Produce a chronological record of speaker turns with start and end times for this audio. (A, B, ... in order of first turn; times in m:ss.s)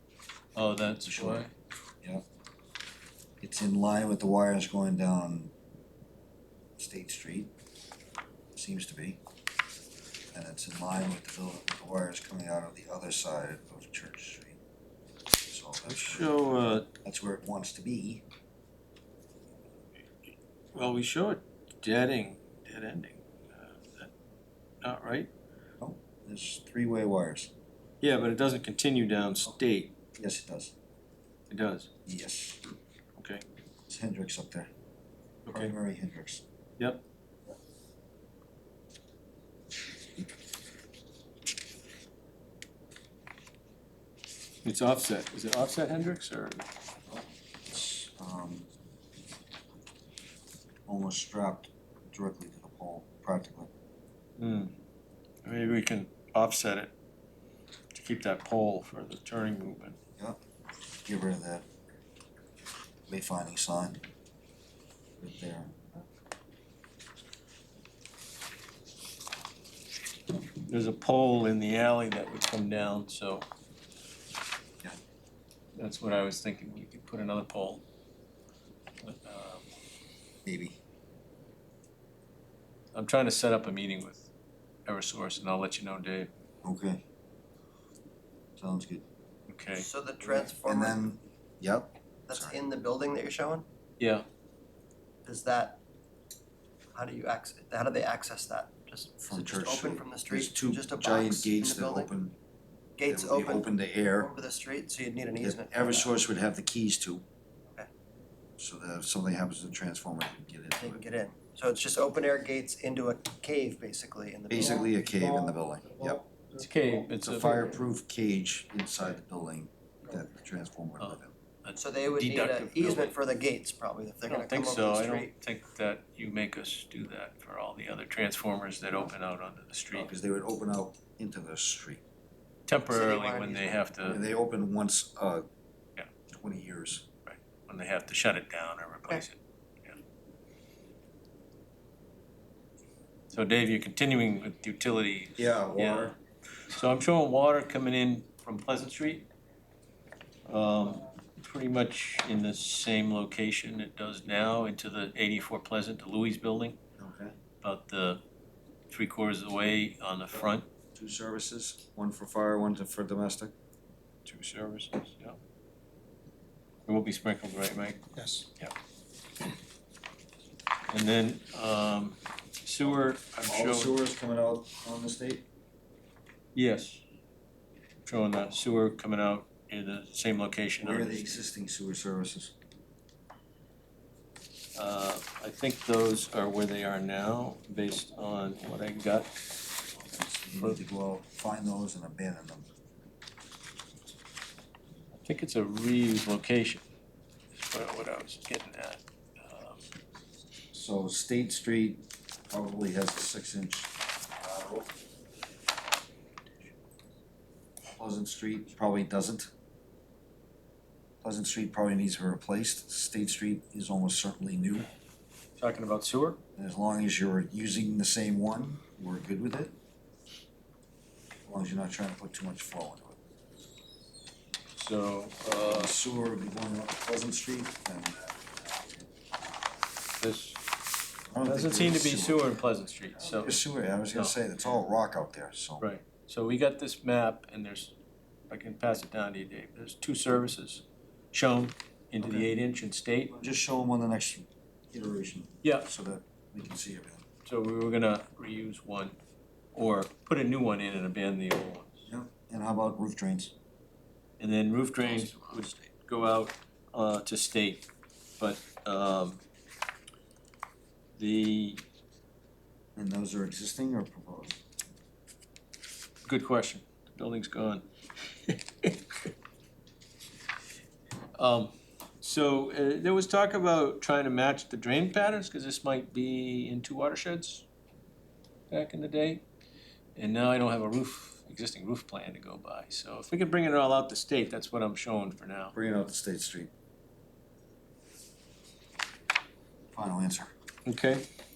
0:00.5-0:01.5 A
0:01.0-0:01.4 B
0:03.4-0:05.5 B
0:06.8-0:07.5 B
0:08.5-0:09.2 B
0:10.3-0:14.6 B
0:15.4-0:18.2 B
0:15.8-0:16.9 A
0:20.7-0:24.1 A
0:24.8-0:25.3 A
0:25.8-0:27.5 B
0:28.0-0:29.9 A
0:30.2-0:30.7 B
0:31.5-0:31.9 A
0:32.0-0:32.6 B
0:33.1-0:33.4 A
0:33.9-0:34.7 B
0:35.4-0:35.7 A
0:35.5-0:36.4 B
0:44.6-0:46.6 A
0:47.1-0:48.7 B
0:50.8-0:53.7 B
0:54.4-0:54.7 A
0:55.4-0:56.9 A
0:57.9-1:00.0 A
1:01.0-1:01.6 B
1:03.1-1:04.0 B
1:05.2-1:05.8 B
1:10.5-1:13.5 A
1:15.8-1:17.8 A
1:19.0-1:19.6 A
1:20.4-1:20.8 B
1:22.9-1:24.3 A
1:24.8-1:26.3 A
1:26.6-1:27.0 B
1:28.6-1:29.0 B
1:29.5-1:29.9 A
1:29.7-1:31.0 C
1:30.4-1:32.6 B
1:32.3-1:33.6 C
1:34.0-1:34.2 A
1:35.2-1:35.8 C
1:36.9-1:42.1 C
1:39.2-1:42.4 B
1:43.0-1:46.2 C
1:43.1-1:44.3 B
1:45.4-1:47.2 B
1:48.6-1:51.0 B
1:50.8-1:54.9 C
1:54.5-1:56.2 B
1:56.5-1:57.6 A
1:57.2-2:01.3 B
2:01.0-2:03.1 A
2:01.8-2:05.3 C
2:04.3-2:10.1 A
2:09.9-2:12.0 B
2:12.7-2:14.2 A
2:12.9-2:13.9 C
2:14.0-2:15.4 B
2:16.3-2:17.0 B
2:17.2-2:20.0 A
2:23.3-2:29.3 A
2:25.4-2:26.2 B
2:30.5-2:36.8 A
2:37.0-2:37.4 B
2:37.6-2:38.2 A
2:38.9-2:40.7 A
2:40.3-2:43.5 B
2:44.2-2:45.4 A
2:46.9-2:48.0 A
2:50.9-2:54.0 A
2:53.4-2:55.4 B
2:56.5-2:57.0 A
2:58.0-3:01.4 A
3:00.8-3:02.5 B
3:04.7-3:09.3 A
3:10.1-3:12.7 B
3:15.2-3:16.8 A
3:17.6-3:19.8 A
3:20.7-3:24.9 B
3:28.0-3:29.5 B
3:31.2-3:34.9 B
3:35.6-3:36.4 A
3:36.6-3:39.7 B
3:41.4-3:43.2 B
3:44.7-3:45.9 A
3:45.5-3:49.1 B
3:50.2-3:50.6 A
3:51.3-3:52.5 B
3:51.4-3:53.6 A
3:53.2-3:55.8 B
3:55.8-3:58.0 A
3:58.5-4:03.4 A
4:03.3-4:07.2 B
4:05.6-4:05.9 A
4:07.4-4:09.2 A
4:09.7-4:12.0 A
4:12.1-4:13.5 B
4:14.4-4:17.8 A
4:15.0-4:15.9 B
4:18.4-4:19.4 A
4:21.2-4:21.8 A
4:23.0-4:24.6 B
4:26.2-4:27.8 A
4:28.4-4:29.3 A
4:31.3-4:37.7 A
4:38.7-4:39.4 A
4:40.2-4:45.8 A
4:45.7-4:46.7 B
4:49.9-4:50.5 B
4:50.8-4:51.3 A